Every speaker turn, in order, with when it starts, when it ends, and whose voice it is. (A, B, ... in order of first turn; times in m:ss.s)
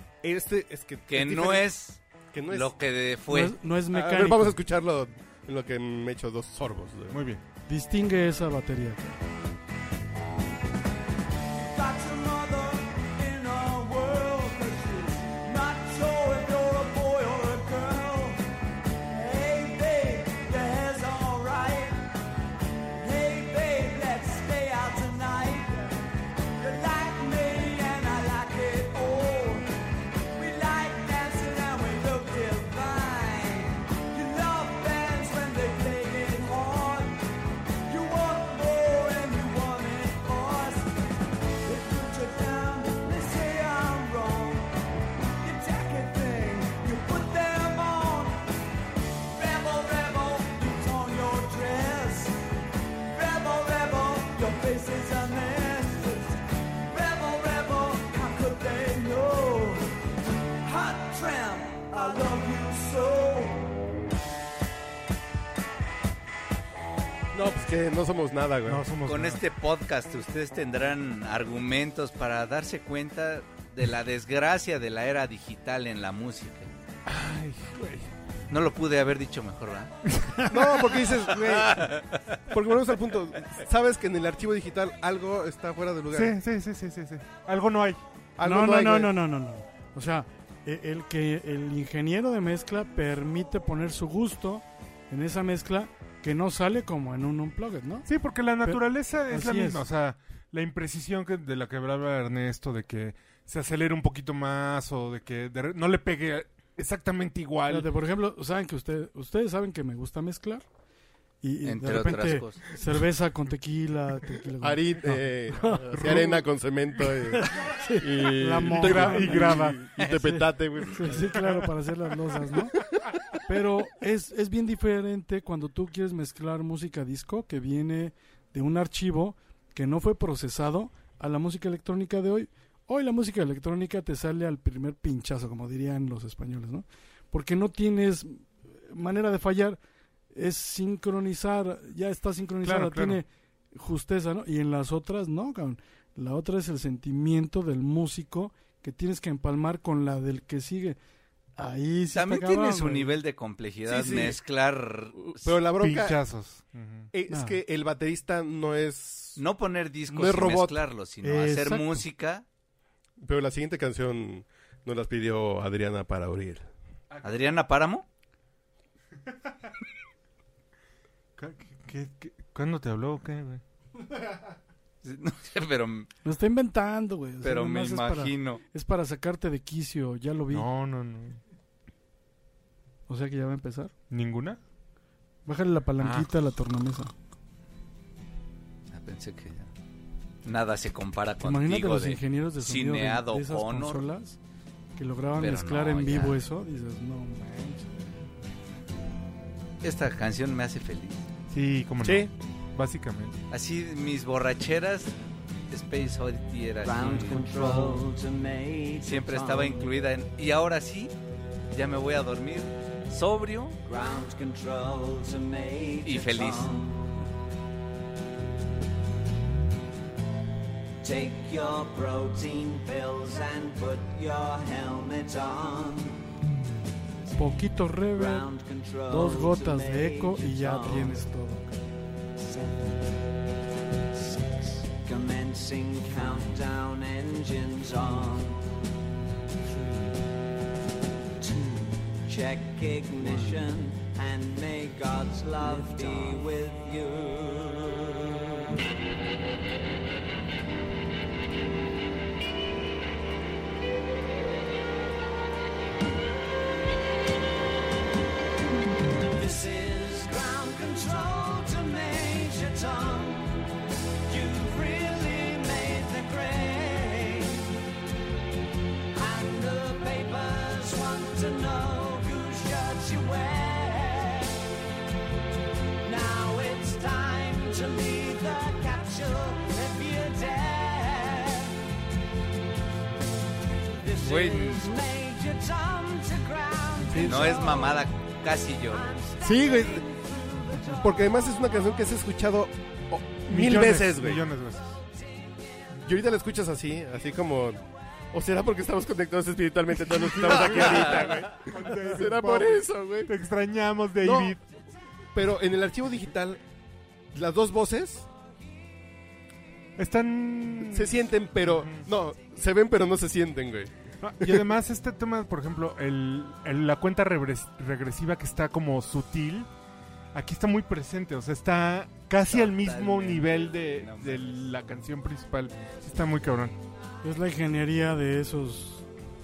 0:00.2-0:01.7 A
0:01.1-0:03.6 B
0:02.3-0:02.7 A
0:03.3-0:04.6 C
0:03.9-0:07.2 A
0:07.1-0:07.4 D
0:07.7-0:09.2 C
0:11.6-0:18.4 E
0:19.1-0:22.1 E
0:22.9-0:26.0 E
0:26.6-0:29.7 E
0:30.3-0:37.2 E
0:37.9-0:40.9 E
0:41.6-0:44.7 E
0:45.4-0:48.5 E
0:49.3-0:52.4 E
0:53.0-0:59.9 E
1:00.6-1:03.8 E
1:07.3-1:08.9 A
1:08.7-1:09.4 D
1:09.0-1:16.7 B
1:17.1-1:18.1 D
1:18.5-1:19.9 B
1:20.1-1:21.2 D
1:20.5-1:26.4 A
1:21.4-1:22.4 B
1:26.1-1:28.0 D
1:28.4-1:29.2 A
1:28.4-1:38.1 C
1:38.1-1:47.9 D
1:38.6-1:39.9 C
1:47.7-1:50.6 C
1:51.4-1:56.2 C
1:51.6-1:52.6 B
1:54.6-2:01.3 A
1:55.9-1:56.4 D
1:57.4-2:02.8 C
1:58.7-1:59.8 D
2:00.0-2:00.3 B
2:01.4-2:01.7 D
2:03.5-2:19.8 C
2:20.3-2:31.0 C
2:22.6-2:23.2 D
2:31.6-2:33.1 C
2:32.1-2:35.5 B
2:33.9-2:34.4 A
2:35.2-2:36.2 A
2:35.8-2:37.1 D
2:37.1-2:39.4 A
2:37.3-2:37.6 C
2:39.4-2:42.4 B
2:40.1-2:40.8 A
2:41.2-2:42.0 C
2:43.2-2:46.7 A
2:47.1-2:47.5 D
2:47.2-2:48.0 B
2:51.4-2:53.6 D
2:55.0-2:56.1 B
2:56.2-3:00.7 C
2:57.4-2:58.6 B
3:00.5-3:01.4 D
3:03.1-3:03.9 C
3:04.1-3:04.6 D
3:05.5-3:07.1 C
3:06.0-3:06.3 D
3:08.9-3:09.7 B
3:10.4-3:14.1 B
3:11.4-3:14.4 C
3:15.0-3:18.0 C
3:15.4-3:16.4 B
3:19.8-3:21.2 B
3:21.5-3:23.4 D
3:22.0-3:22.3 A
3:23.5-3:25.1 B
3:25.7-3:27.9 B
3:26.8-3:29.9 E
3:29.0-3:31.1 B
3:31.7-3:33.8 B
3:33.8-3:37.1 E
3:36.0-3:36.7 B
3:41.0-3:46.2 E
3:47.4-3:48.5 C
3:48.1-3:51.3 E
3:49.1-3:51.7 C
3:52.4-3:53.1 E
3:54.1-3:58.6 E
4:01.4-4:08.4 E
4:05.9-4:06.4 B
4:19.3-4:23.7 E
4:24.3-4:27.7 E
4:29.1-4:34.6 E
4:36.0-4:41.8 E
4:43.9-4:48.1 E
4:44.2-4:45.0 B
4:47.1-4:47.4 C
4:47.2-4:49.2 B
4:48.9-4:51.1 E
4:49.4-4:50.0 A
4:50.8-4:54.4 A
4:53.5-4:55.0 D
4:56.0-5:03.3 A
4:59.9-5:04.6 D
5:00.5-5:01.4 B
5:04.2-5:04.6 A
5:05.3-5:06.6 A
5:07.3-5:08.3 A
5:10.0-5:12.1 D
5:10.8-5:14.6 A
5:14.2-5:19.7 D
5:20.3-5:26.8 D
5:22.4-5:24.6 B
5:27.2-5:29.0 C